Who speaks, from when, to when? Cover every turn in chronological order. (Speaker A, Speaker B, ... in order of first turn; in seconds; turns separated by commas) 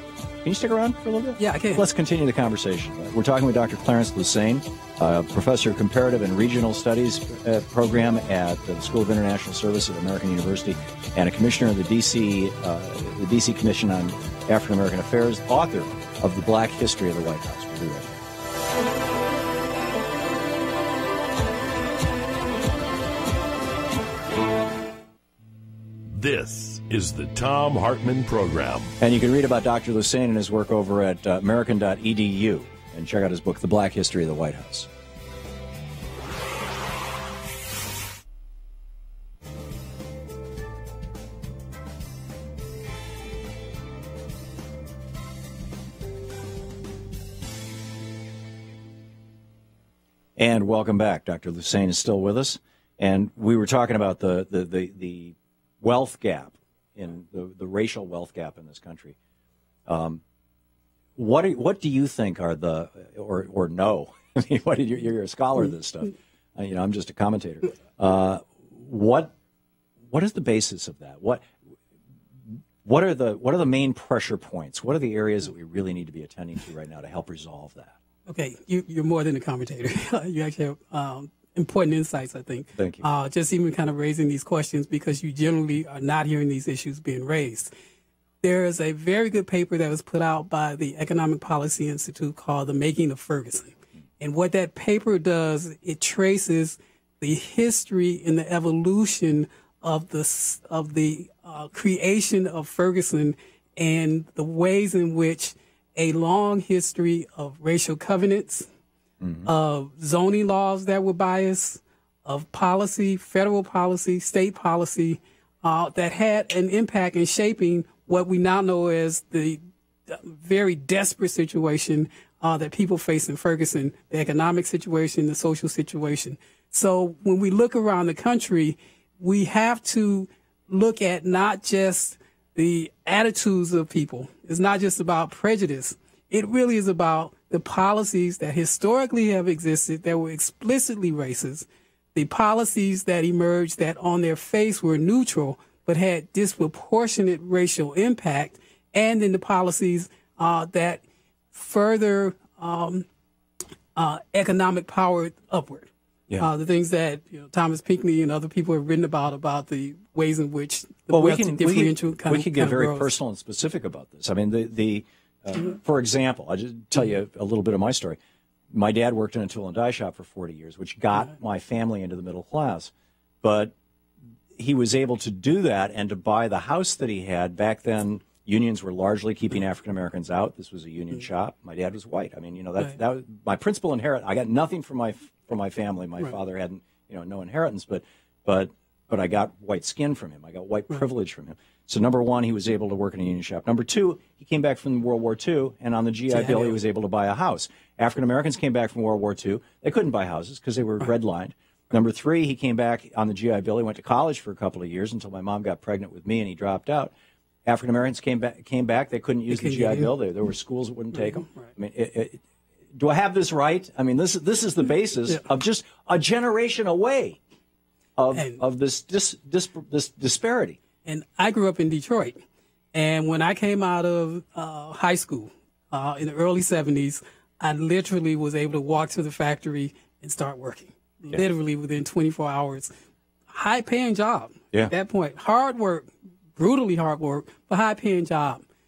Speaker A: 0.4-18.2, Speaker B: 1.4-1.8, Speaker C: 26.1-28.9, Speaker A: 29.0-34.9, Speaker A: 50.4-59.1, Speaker A: 59.9-60.2, Speaker A: 61.1-69.3, Speaker A: 70.1-71.5, Speaker A: 72.8-78.0, Speaker B: 78.3-87.7, Speaker A: 82.8-83.0, Speaker B: 88.4-108.7, Speaker A: 109.2-109.5, Speaker B: 109.5-153.1, Speaker B: 153.9-163.1, Speaker A: 161.1-168.2, Speaker A: 168.7-172.9, Speaker A: 173.4-173.7, Speaker A: 174.5-207.1, Speaker B: 196.3-196.8, Speaker A: 207.7-212.4, Speaker B: 209.5-210.1, Speaker B: 211.1-211.7, Speaker A: 213.0-217.4, Speaker A: 218.2-220.8, Speaker B: 218.3-218.6, Speaker B: 221.0-222.4, Speaker B: 222.9-232.9, Speaker B: 233.5-238.6